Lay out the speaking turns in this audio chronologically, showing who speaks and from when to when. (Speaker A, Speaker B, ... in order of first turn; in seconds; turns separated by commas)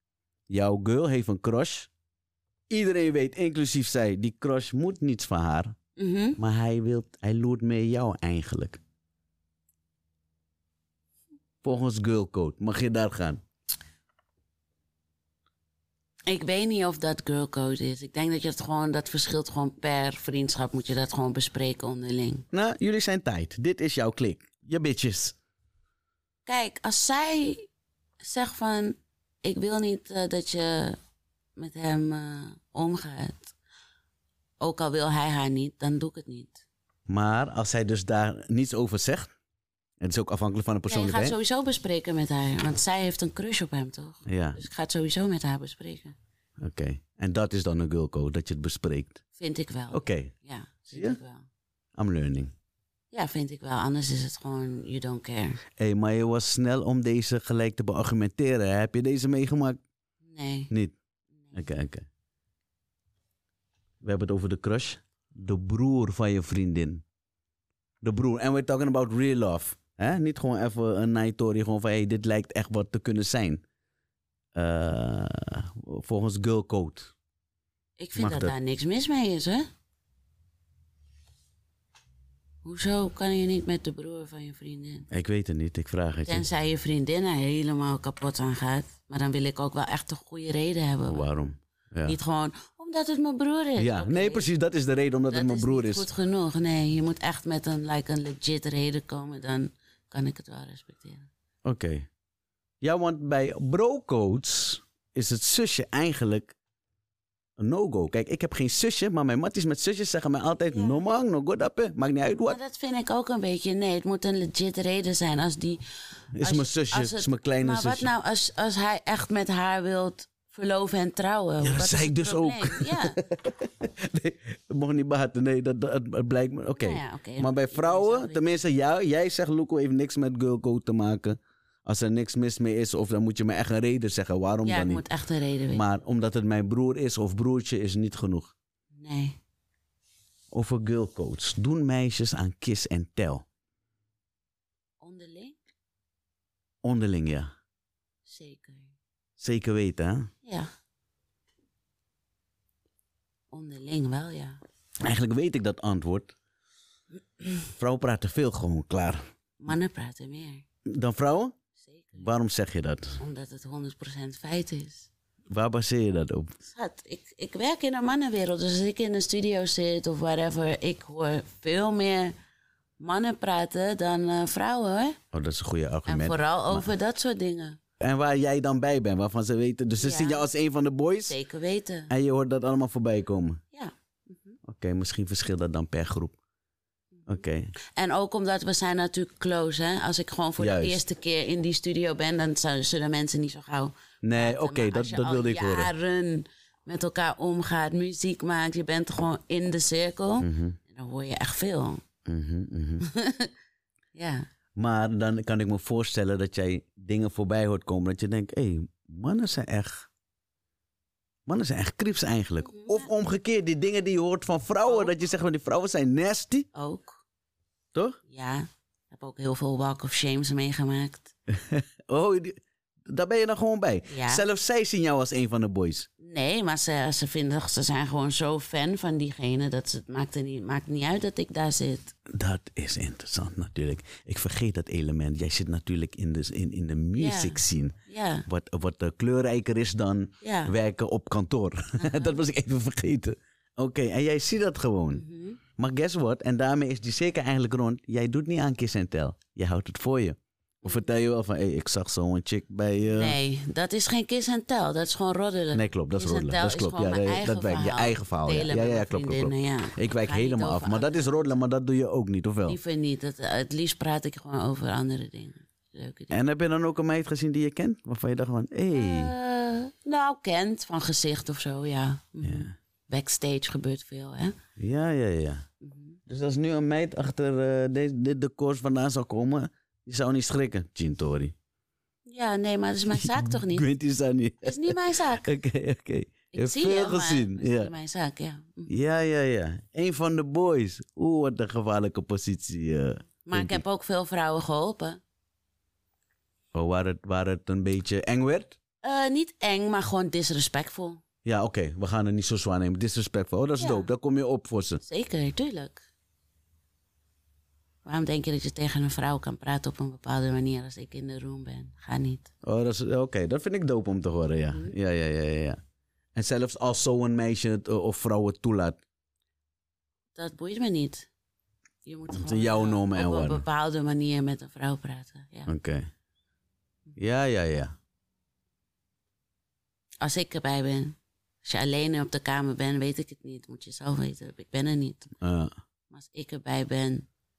Speaker A: 0.5-1.9, Speaker A: 2.7-5.8, Speaker B: 6.0-6.4, Speaker A: 6.4-8.8, Speaker A: 11.6-13.4, Speaker B: 16.3-22.4, Speaker A: 22.5-25.4, Speaker B: 26.4-27.7, Speaker B: 28.2-31.0, Speaker B: 31.6-33.5, Speaker B: 34.6-36.6, Speaker A: 37.1-39.3, Speaker A: 40.0-41.4, Speaker B: 40.9-46.1, Speaker A: 44.2-44.6, Speaker A: 46.6-49.2, Speaker B: 49.4-51.5, Speaker A: 49.9-50.3, Speaker A: 50.9-51.2, Speaker A: 52.0-52.5, Speaker B: 53.1-55.6, Speaker A: 55.8-59.8, Speaker B: 60.3-60.7, Speaker A: 60.7-60.9, Speaker A: 61.5-62.1, Speaker A: 64.0-67.0, Speaker A: 68.0-73.6, Speaker A: 74.5-77.1, Speaker B: 78.0-79.7, Speaker A: 78.2-78.5, Speaker B: 82.6-85.1, Speaker A: 85.1-86.5, Speaker B: 86.2-91.3, Speaker A: 91.0-92.2, Speaker B: 92.0-94.5, Speaker A: 93.8-96.1, Speaker B: 95.3-101.3, Speaker A: 101.6-102.1, Speaker A: 102.8-106.5, Speaker A: 107.6-112.6, Speaker B: 110.7-111.0, Speaker B: 112.5-115.8, Speaker A: 116.3-118.1, Speaker B: 116.4-123.2, Speaker A: 121.6-135.0, Speaker B: 126.8-128.4, Speaker B: 134.6-135.8, Speaker A: 135.7-138.5, Speaker B: 138.9-139.4, Speaker A: 140.5-143.4, Speaker B: 145.0-145.6, Speaker A: 146.8-147.5, Speaker B: 148.2-148.9, Speaker A: 149.4-150.3, Speaker B: 150.4-150.7, Speaker B: 153.5-154.6, Speaker A: 155.0-156.3, Speaker A: 157.8-159.2, Speaker B: 159.6-160.6, Speaker A: 160.8-161.6, Speaker B: 161.8-162.3, Speaker A: 162.2-163.2, Speaker B: 163.2-165.1, Speaker A: 165.5-166.5, Speaker B: 166.6-172.3, Speaker B: 173.0-175.2, Speaker A: 175.3-176.9, Speaker B: 176.1-177.8, Speaker A: 178.0-181.3, Speaker B: 180.0-180.5, Speaker B: 181.3-182.1, Speaker A: 182.1-183.6, Speaker B: 183.7-184.6, Speaker A: 184.6-186.4, Speaker A: 187.3-187.7, Speaker B: 187.9-202.0, Speaker A: 190.6-191.0, Speaker A: 194.2-195.9, Speaker A: 200.4-200.8, Speaker A: 202.2-203.0, Speaker B: 203.0-203.5, Speaker B: 204.1-204.4, Speaker A: 204.8-210.1, Speaker A: 211.5-216.7, Speaker B: 212.6-213.1, Speaker B: 214.8-215.1, Speaker B: 216.7-217.2, Speaker B: 218.3-221.3, Speaker A: 221.5-226.1, Speaker B: 224.1-224.4, Speaker B: 226.2-232.1, Speaker A: 232.3-237.9, Speaker B: 237.2-238.4, Speaker A: 238.4-245.2, Speaker B: 240.4-240.7, Speaker B: 242.0-242.4, Speaker B: 245.1-245.6, Speaker A: 245.8-253.4, Speaker B: 250.8-251.1, Speaker B: 253.1-261.6, Speaker A: 255.7-262.8, Speaker B: 262.6-266.4, Speaker A: 266.3-269.3, Speaker B: 268.9-274.5, Speaker A: 272.4-272.7, Speaker A: 274.8-275.6, Speaker B: 275.8-276.2, Speaker A: 276.3-281.5, Speaker B: 282.3-283.9, Speaker A: 283.1-287.9, Speaker B: 284.6-285.5, Speaker B: 286.5-288.9, Speaker A: 288.9-293.8, Speaker B: 293.4-295.2, Speaker A: 296.7-298.8, Speaker B: 299.0-301.2, Speaker A: 301.4-305.0, Speaker B: 303.8-304.1, Speaker B: 305.0-306.1, Speaker B: 308.0-312.5, Speaker A: 312.6-315.8, Speaker A: 316.3-319.0, Speaker B: 320.3-321.3, Speaker B: 322.0-325.7, Speaker A: 322.3-323.6, Speaker A: 325.7-326.1, Speaker A: 327.1-327.9, Speaker B: 330.2-335.3, Speaker A: 335.4-335.7, Speaker B: 336.1-337.3